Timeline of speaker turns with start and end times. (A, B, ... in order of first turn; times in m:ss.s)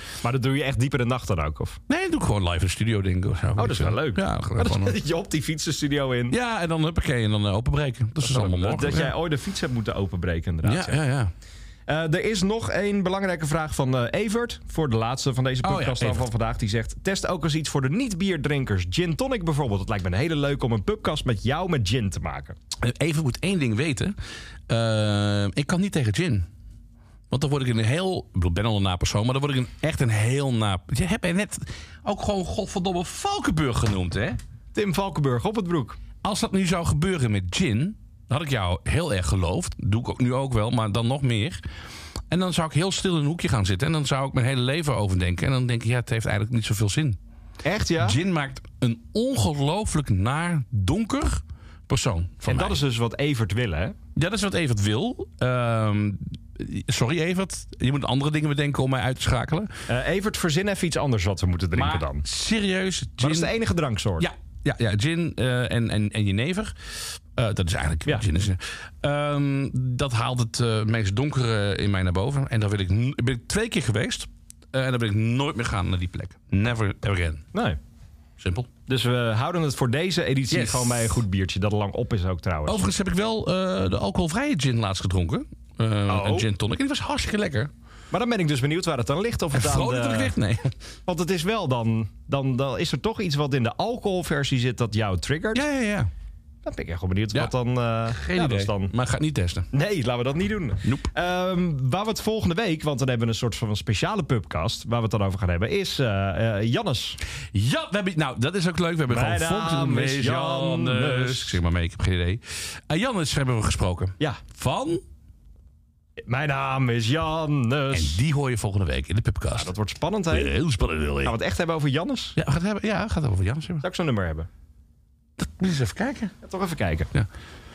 0:00.2-0:01.8 A
0:01.9-0:05.0 B
0:03.6-0:06.4 A
0:06.3-0:09.1 B
0:08.2-0:11.0 A
0:10.6-0:11.3 B
0:11.9-0:22.6 A
0:15.6-0:16.3 B
0:22.8-0:24.1 B
0:24.7-0:26.4 B
0:27.3-0:34.4 B
0:34.7-0:36.0 A
0:36.2-0:41.6 B
0:42.3-0:47.2 B
0:47.6-0:48.2 A
0:48.0-0:52.8 B
0:52.4-0:53.9 A
0:54.2-0:59.7 B
0:59.9-1:02.2 A
1:01.7-1:03.5 B
1:03.2-1:04.3 A
1:04.2-1:06.7 B
1:07.3-1:17.4 B
1:18.4-1:18.7 B
1:18.9-1:22.8 A
1:20.5-1:21.2 B
1:22.6-1:27.7 B
1:26.1-1:26.5 A
1:28.1-1:30.3 A
1:29.5-1:30.7 B
1:31.1-1:35.6 A
1:35.5-1:36.1 B
1:36.6-1:38.9 A
1:38.1-1:39.7 B
1:39.7-1:47.2 A
1:47.5-1:55.0 B
1:49.1-1:51.6 A
1:56.2-1:58.2 A
1:57.9-1:59.7 B
1:59.5-2:00.5 A
2:00.3-2:01.4 B
2:01.2-2:02.4 A
2:02.4-2:03.8 B
2:03.8-2:04.5 A
2:05.4-2:06.3 B
2:06.4-2:07.1 A